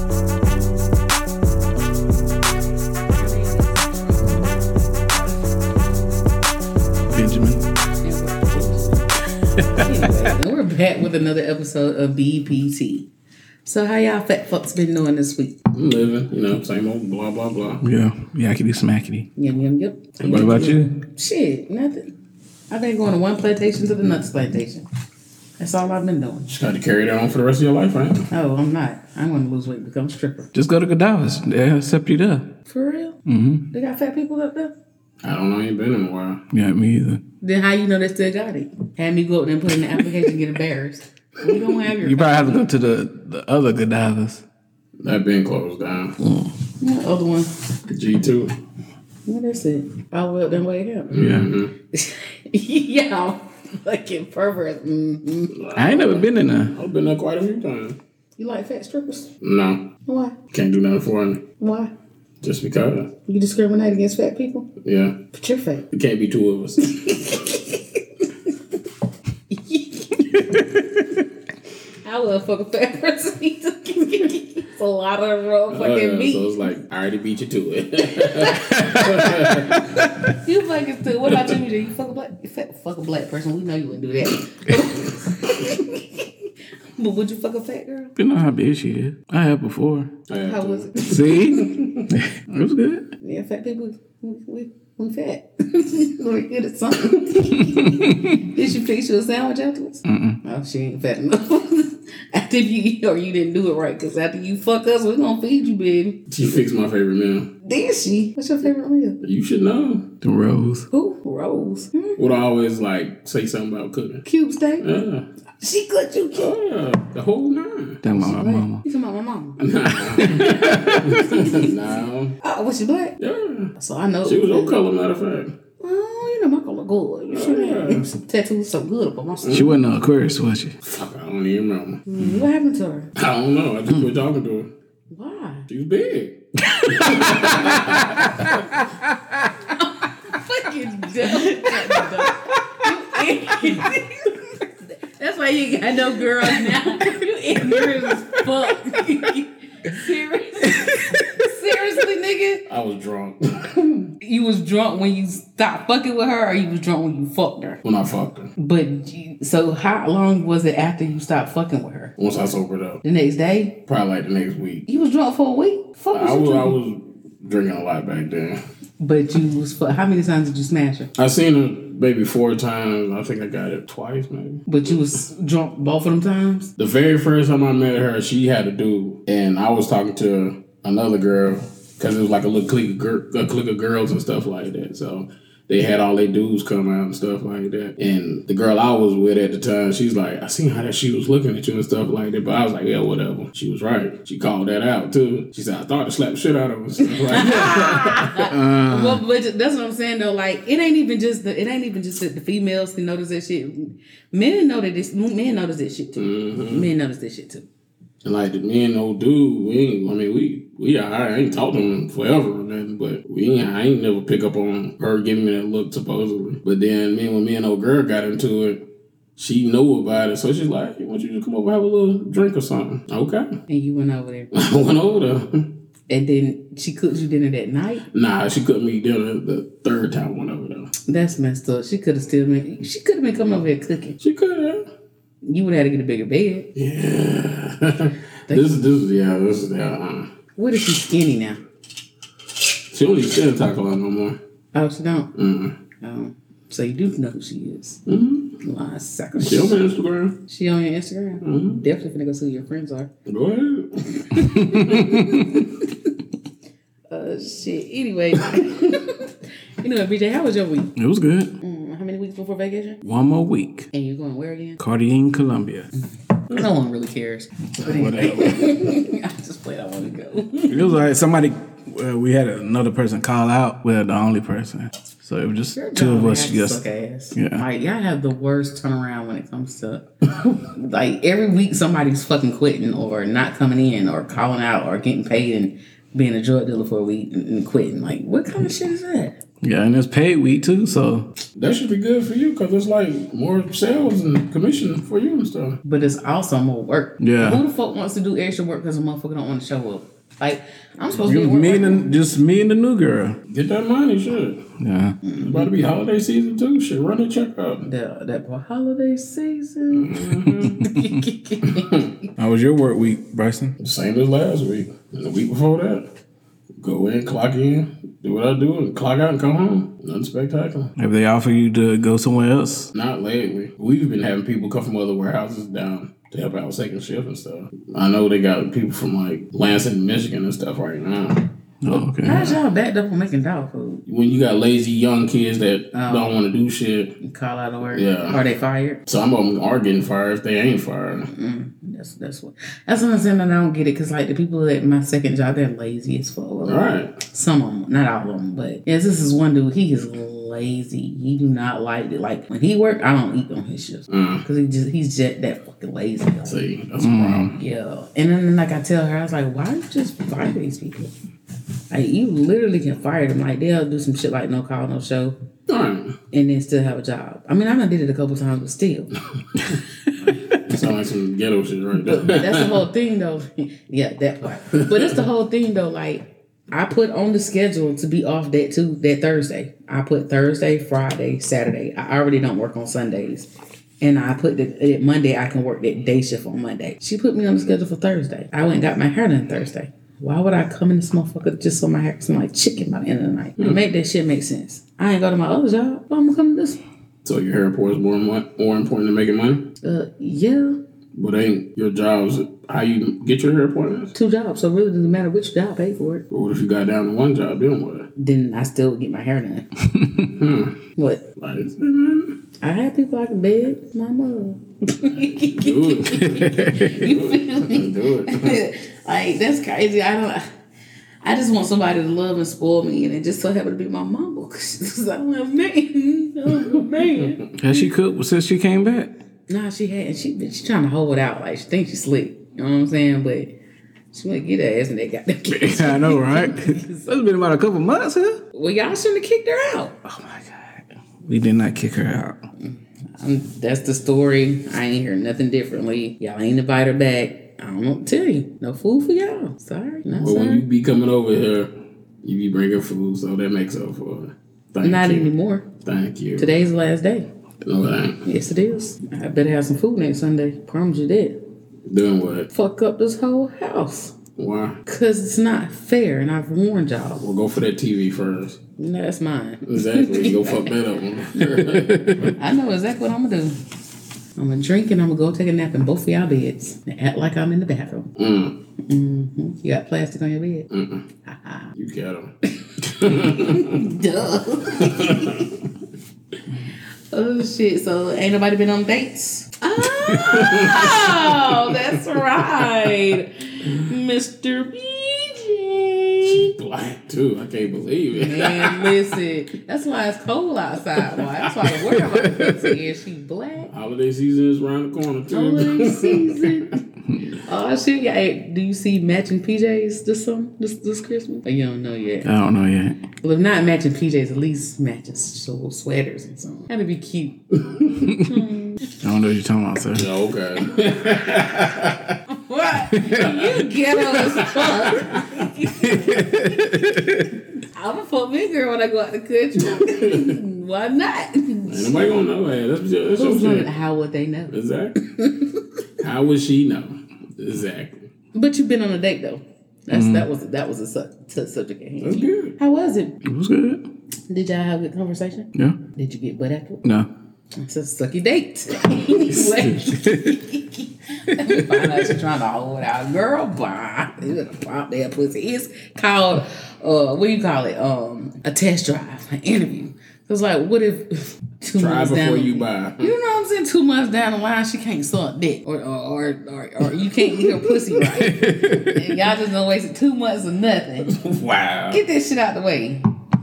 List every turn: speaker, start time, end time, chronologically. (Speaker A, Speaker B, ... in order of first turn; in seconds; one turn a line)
Speaker A: 3.1-4.6
Speaker B: 7.1-7.6
Speaker A: 8.0-13.1
Speaker B: 9.6-10.3
Speaker A: 13.7-15.6
Speaker C: 15.7-17.8
Speaker B: 17.8-19.3
Speaker A: 19.4-22.1
Speaker B: 20.2-20.9
Speaker C: 20.3-20.8
Speaker A: 22.7-24.9
Speaker A: 25.6-26.5
Speaker C: 26.5-28.3
Speaker A: 28.3-30.5
Speaker B: 30.5-32.5
Speaker A: 32.7-33.2
Speaker B: 33.3-33.7
Speaker A: 33.7-34.7
Speaker C: 35.2-36.4
Speaker B: 36.5-37.2
Speaker A: 37.4-42.6
Speaker B: 41.8-44.4
Speaker C: 45.0-46.2
Speaker B: 46.2-46.5
Speaker A: 46.8-47.5
Speaker C: 47.9-48.5
Speaker A: 49.3-51.2
Speaker C: 51.1-51.7
Speaker B: 51.1-51.5
Speaker A: 51.9-55.5
Speaker C: 55.5-58.0
Speaker B: 55.8-56.8
Speaker A: 58.4-59.3
Speaker C: 59.4-59.9
Speaker A: 60.1-60.4
Speaker C: 60.5-61.5
Speaker A: 61.6-61.9
Speaker C: 62.4-63.1
Speaker A: 63.3-64.7
Speaker C: 64.8-65.2
Speaker A: 65.3-65.9
Speaker C: 65.9-67.4
Speaker A: 66.8-68.0
Speaker A: 69.5-70.6
Speaker B: 70.3-71.2
Speaker A: 72.0-76.7
Speaker C: 75.7-79.8
Speaker A: 78.2-79.3
Speaker B: 78.6-80.3
Speaker A: 80.3-88.2
Speaker B: 88.2-90.1
Speaker C: 90.3-92.1
Speaker A: 90.4-91.6
Speaker B: 91.1-93.1
Speaker A: 93.2-106.2
Speaker B: 97.3-98.4
Speaker B: 100.0-100.4
Speaker C: 106.3-107.5
Speaker A: 107.6-109.2
Speaker C: 109.2-110.1
Speaker B: 110.2-110.9
Speaker A: 110.9-112.2
Speaker C: 112.2-114.2
Speaker A: 114.2-114.9
Speaker C: 114.8-115.3
Speaker A: 115.6-116.5
Speaker C: 116.3-118.0
Speaker B: 118.0-118.8
Speaker A: 118.1-121.8
Speaker C: 119.6-122.4
Speaker B: 120.0-121.3
Speaker A: 122.4-123.2
Speaker C: 123.2-123.7
Speaker A: 123.8-124.8
Speaker C: 124.2-125.5
Speaker A: 125.8-129.7
Speaker C: 127.3-128.1
Speaker C: 129.4-129.8
Speaker B: 129.5-130.8
Speaker C: 130.8-132.0
Speaker A: 132.1-133.1
Speaker C: 133.2-134.7
Speaker A: 135.1-135.7
Speaker C: 135.7-138.3
Speaker B: 136.7-139.5
Speaker A: 137.1-138.8
Speaker A: 139.6-152.7
Speaker B: 141.2-143.9
Speaker B: 150.7-151.5
Speaker C: 152.7-153.8
Speaker A: 153.8-157.8
Speaker C: 157.8-158.5
Speaker A: 158.6-162.1
Speaker C: 162.2-163.0
Speaker A: 163.0-163.8
Speaker C: 163.9-164.9
Speaker A: 164.9-166.8
Speaker C: 166.1-168.6
Speaker A: 169.0-171.1
Speaker C: 171.2-175.0
Speaker A: 174.7-176.7
Speaker C: 176.8-198.4
Speaker A: 197.0-207.7
Speaker B: 198.4-199.2
Speaker C: 206.2-206.9
Speaker C: 208.2-218.9
Speaker C: 219.4-223.5
Speaker A: 223.7-224.8
Speaker C: 224.5-225.7
Speaker A: 226.1-228.1
Speaker C: 228.1-230.9
Speaker A: 231.1-234.2
Speaker C: 234.2-234.9
Speaker A: 235.4-236.7
Speaker C: 236.8-240.3
Speaker A: 240.6-241.6
Speaker C: 242.9-244.4
Speaker A: 244.7-245.3
Speaker C: 245.3-245.8
Speaker A: 246.0-248.0
Speaker C: 248.1-248.6
Speaker A: 248.6-249.8
Speaker C: 249.4-250.4
Speaker A: 250.5-253.1
Speaker C: 251.4-251.8
Speaker C: 253.3-255.2
Speaker A: 254.2-255.9
Speaker B: 254.5-255.6
Speaker A: 257.1-260.9
Speaker B: 261.0-261.5
Speaker A: 261.6-263.0
Speaker B: 263.0-263.9
Speaker A: 263.9-264.8
Speaker B: 264.8-265.9
Speaker A: 266.5-271.0
Speaker B: 267.8-268.7
Speaker C: 267.8-268.6
Speaker B: 270.7-276.8
Speaker A: 275.8-289.4
Speaker B: 277.4-277.6
Speaker B: 289.6-291.3
Speaker C: 291.6-295.8
Speaker A: 295.8-302.2
Speaker B: 297.2-297.6
Speaker B: 301.1-303.4
Speaker C: 303.5-304.7
Speaker B: 304.8-305.2
Speaker A: 305.2-305.8
Speaker C: 305.4-307.9
Speaker A: 307.8-312.1
Speaker C: 309.9-310.8
Speaker B: 310.5-311.2
Speaker C: 311.6-312.1
Speaker B: 312.4-313.8
Speaker C: 313.8-316.1
Speaker C: 316.8-320.9
Speaker B: 321.0-322.9
Speaker C: 322.9-331.5
Speaker B: 331.8-332.5
Speaker A: 332.0-334.0
Speaker C: 332.3-332.6
Speaker C: 334.1-337.2
Speaker A: 335.9-336.4
Speaker A: 337.2-339.0
Speaker C: 337.9-338.4
Speaker C: 339.1-341.3
Speaker A: 341.3-356.6
Speaker C: 346.6-347.2
Speaker C: 354.1-354.4
Speaker C: 356.4-357.5
Speaker B: 357.0-357.5
Speaker A: 357.4-361.1
Speaker A: 361.9-365.4
Speaker C: 365.7-366.2
Speaker A: 366.3-369.1
Speaker C: 370.2-372.9
Speaker A: 372.0-383.5
Speaker C: 374.7-375.2
Speaker A: 384.0-396.8
Speaker C: 397.2-399.7
Speaker A: 399.8-400.8
Speaker C: 401.1-404.1
Speaker A: 404.1-406.2
Speaker C: 406.3-408.1
Speaker A: 408.2-409.7
Speaker C: 410.2-410.8
Speaker A: 411.0-411.2
Speaker C: 411.4-412.4
Speaker A: 412.6-420.4
Speaker C: 415.3-418.6
Speaker B: 416.3-417.0
Speaker A: 421.2-427.9
Speaker B: 427.6-429.1
Speaker A: 429.5-433.5
Speaker A: 434.1-437.2
Speaker B: 435.5-438.4
Speaker A: 438.5-440.0
Speaker B: 440.1-442.4
Speaker A: 442.6-450.7
Speaker C: 450.2-451.7
Speaker C: 452.2-455.3
Speaker A: 454.8-455.7
Speaker C: 455.8-456.6
Speaker A: 456.4-457.3
Speaker C: 457.6-458.2
Speaker A: 458.2-461.4
Speaker C: 461.9-462.5
Speaker A: 462.5-464.2
Speaker C: 464.4-464.8
Speaker A: 464.9-467.3
Speaker C: 467.2-468.6
Speaker A: 468.8-470.8
Speaker C: 469.7-472.4
Speaker A: 471.3-473.6
Speaker B: 471.8-472.3
Speaker A: 474.4-478.1
Speaker C: 478.2-478.6
Speaker A: 478.9-480.7
Speaker C: 480.7-481.1
Speaker A: 481.3-481.7
Speaker C: 481.8-483.9
Speaker A: 482.5-485.4
Speaker C: 484.8-485.6
Speaker A: 487.1-496.5
Speaker B: 489.9-490.3
Speaker C: 490.2-491.8
Speaker C: 496.2-499.0
Speaker A: 498.1-503.7
Speaker C: 501.1-501.7
Speaker B: 501.9-502.7
Speaker C: 503.7-506.7
Speaker A: 505.3-506.8
Speaker A: 507.3-512.3
Speaker B: 512.2-513.0
Speaker A: 513.2-519.0
Speaker C: 517.6-517.9
Speaker B: 518.0-518.4
Speaker B: 519.0-520.1
Speaker C: 519.9-522.2
Speaker A: 522.3-526.8
Speaker B: 522.9-523.4
Speaker C: 523.2-525.4
Speaker B: 525.8-527.4
Speaker A: 527.6-532.1
Speaker C: 529.6-530.4
Speaker C: 531.7-533.7
Speaker A: 533.2-535.6
Speaker C: 534.5-535.0
Speaker C: 536.0-538.1
Speaker A: 538.3-543.2
Speaker B: 539.9-540.3
Speaker C: 542.0-542.6
Speaker B: 543.2-543.8
Speaker A: 544.3-546.8
Speaker B: 546.8-547.1
Speaker A: 547.6-571.2
Speaker B: 549.8-550.4
Speaker B: 551.3-552.2
Speaker C: 561.8-563.1
Speaker B: 567.3-569.3
Speaker C: 571.1-572.0
Speaker A: 571.9-573.0